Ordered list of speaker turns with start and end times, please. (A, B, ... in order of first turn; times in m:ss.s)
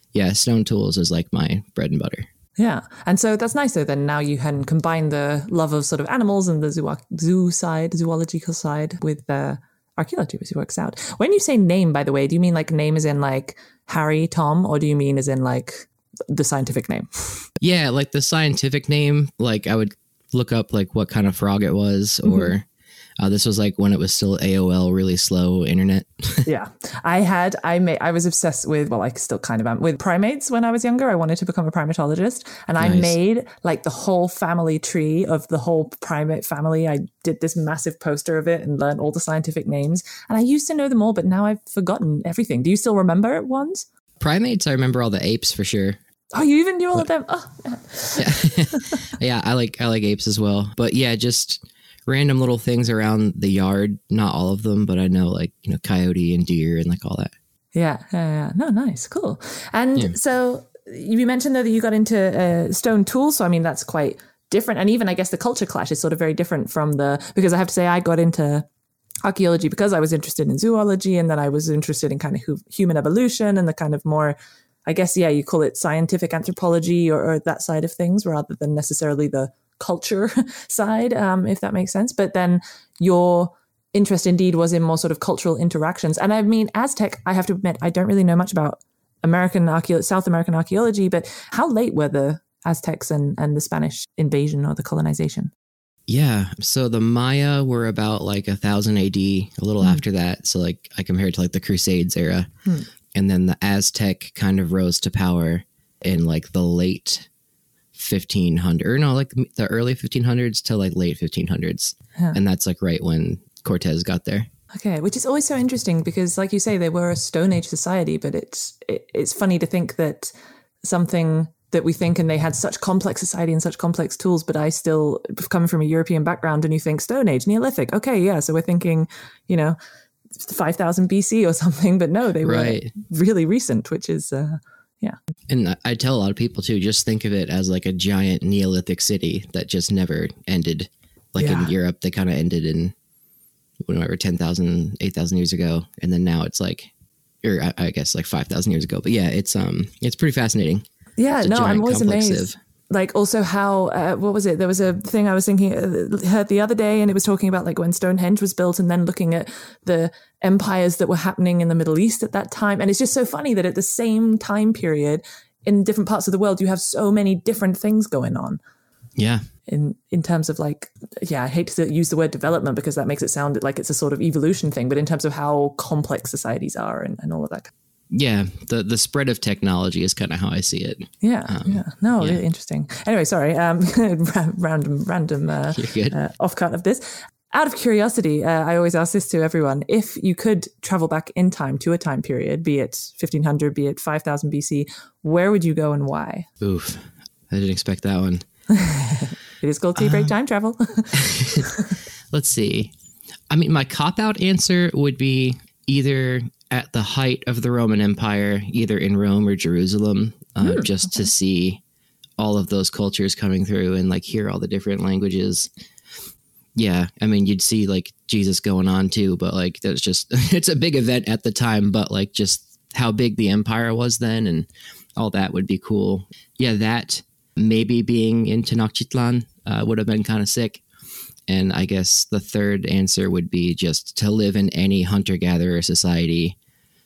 0:00.1-0:02.3 A
0:02.6-0:17.5 B
0:17.6-0:22.7 A
0:22.2-0:22.5 B
0:23.2-0:26.5 A
0:26.4-0:43.8 B
0:32.8-0:33.2 A
0:44.2-0:46.0 A
0:46.3-0:49.0 B
0:48.2-0:57.3 A
0:57.7-1:08.7 B
1:09.2-1:35.5 B
1:36.1-1:42.5 A
1:43.1-1:47.3 A
1:48.0-1:54.5 A
1:54.7-2:09.8 B
2:10.4-2:15.2 B
2:12.4-2:12.9 A
2:15.5-2:22.9 A
2:21.4-2:21.7 B
2:23.8-2:26.9 A
2:27.4-2:30.8 A
2:31.2-2:48.6 B
2:31.4-2:32.6 A
2:49.2-2:49.4 A
2:49.7-2:57.7 B
2:58.1-3:02.4 A
3:01.2-3:16.5 B
3:05.7-3:06.2 A
3:16.6-3:18.4 A
3:18.7-3:21.9 B
3:20.0-3:20.3 A
3:21.2-3:21.7 A
3:22.3-3:22.9 A
3:23.5-3:31.8 A
3:30.6-3:31.3 B
3:32.4-3:35.7 A
3:36.8-3:50.8 A
3:51.5-3:56.6 A